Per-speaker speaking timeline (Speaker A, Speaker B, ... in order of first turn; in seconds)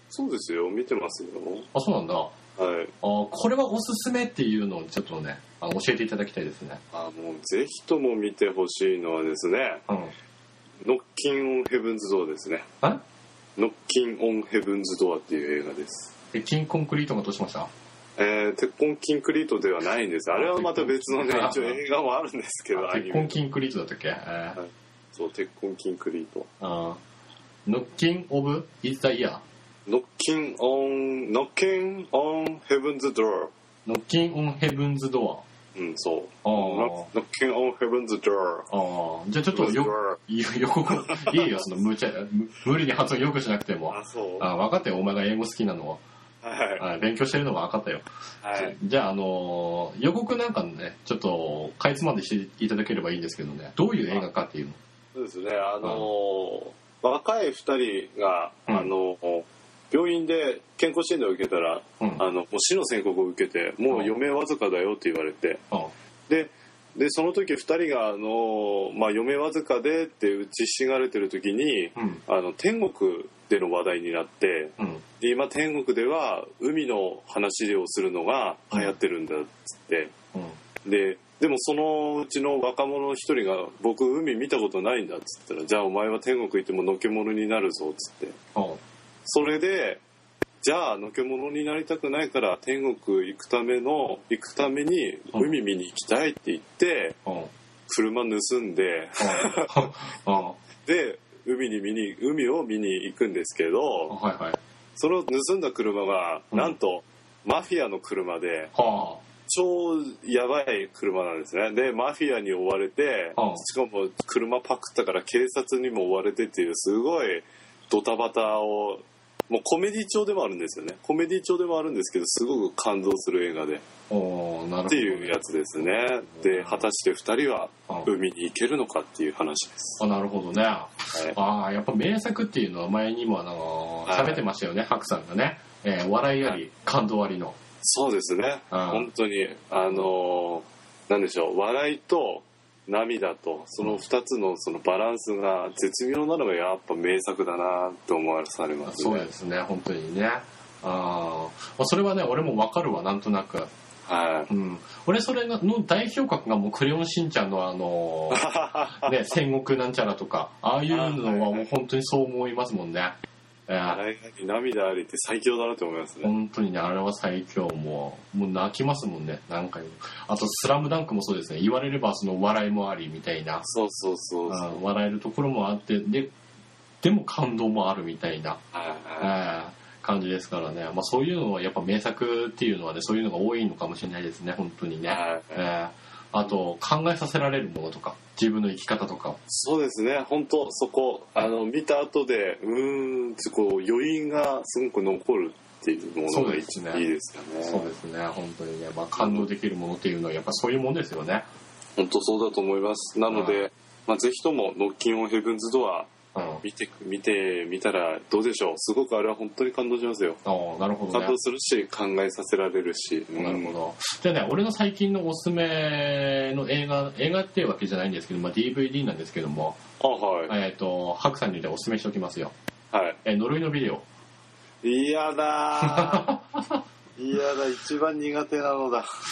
Speaker A: 0.1-1.7, 2.6-2.9, 6.9-9.8, 10.8-12.7, 13.6-16.1, 18.2-23.4, 24.6-26.5, 29.9-33.5, 35.7-38.7, 39.5-40.2, 41.0-41.6, 43.9-44.5, 46.4-46.8, 48.4-48.8, 55.1-65.6, 66.3-80.1, 80.8-88.4, 89.2-90.0, 90.6-97.2, 97.9-99.7, 100.8-104.2, 105.0-108.7, 109.5-123.8, 124.9-130.0, 134.1-134.4, 137.8-149.3, 154.1-154.5, 158.3-159.1, 160.9-161.7, 163.8-166.3, 173.6-174.8, 178.7-179.3, 185.1-185.6, 189.5-197.9, 199.2-199.5, 201.9-206.1, 206.6-210.4, 211.1-213.7, 220.0-220.5, 222.9-223.2, 224.8-226.3, 227.2-229.1
Speaker B: 1.7-2.4, 3.0-6.8, 9.9-10.1, 16.3-17.7, 20.3-21.8, 22.7-24.6, 26.6-27.0, 27.6-29.4, 33.9-35.4, 36.4-37.1, 38.7-46.0, 46.8-54.8, 55.8-56.1, 62.0-62.2, 63.9-64.2, 72.0-72.2, 74.8-75.0, 88.5-88.8, 99.2-100.6, 104.1-104.6, 108.7-109.2, 113.3-113.6, 124.1-125.4, 126.2-126.8, 130.0-137.6, 138.7-139.1, 148.8-153.7, 154.5-163.2, 163.7-164.0, 166.2-173.7, 174.5-176.3, 177.0-178.6, 179.2-189.4, 196.3-197.0, 197.6-201.5, 203.3-203.6, 206.3-206.6, 210.4-211.3, 213.3-219.8, 220.5-222.5, 223.2-224.0, 225.8-226.8